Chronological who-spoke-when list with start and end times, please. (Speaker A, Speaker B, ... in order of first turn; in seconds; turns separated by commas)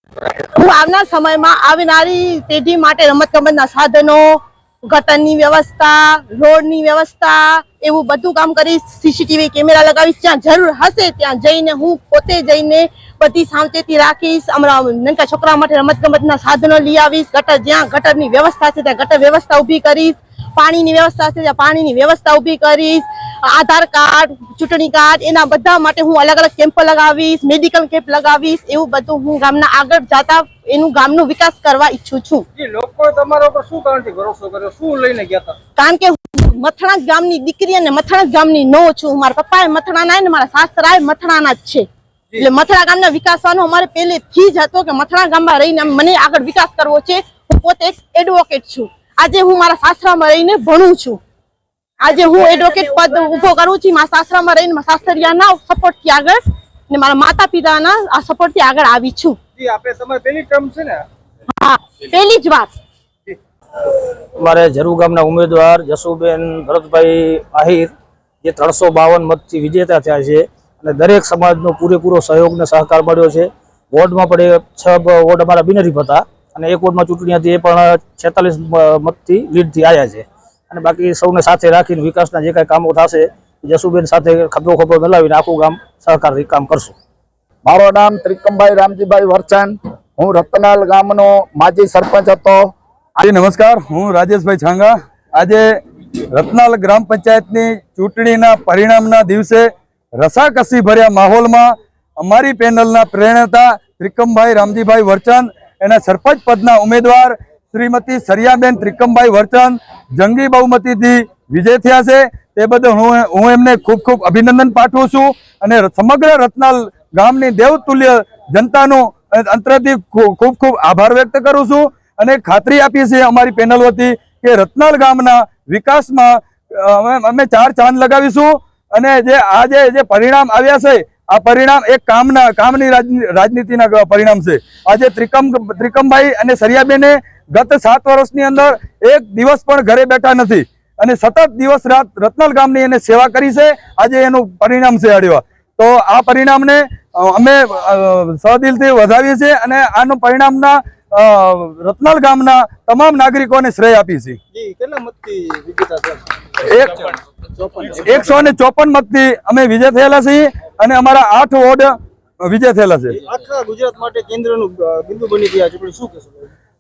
Speaker A: 0.6-32.5, Speaker B: 32.6-35.6, Speaker A: 35.8-41.9, Speaker A: 42.4-51.2, Speaker A: 52.0-59.4, Speaker B: 59.6-61.0, Speaker A: 61.5-62.7, Speaker C: 64.4-67.9, Speaker C: 68.4-86.9, Speaker D: 87.7-92.7, Speaker E: 93.2-95.7, Speaker E: 96.3-154.4, Speaker B: 154.5-156.3, Speaker E: 156.7-156.9, Speaker B: 157.0-158.3, Speaker E: 158.0-163.2, Speaker B: 163.1-166.5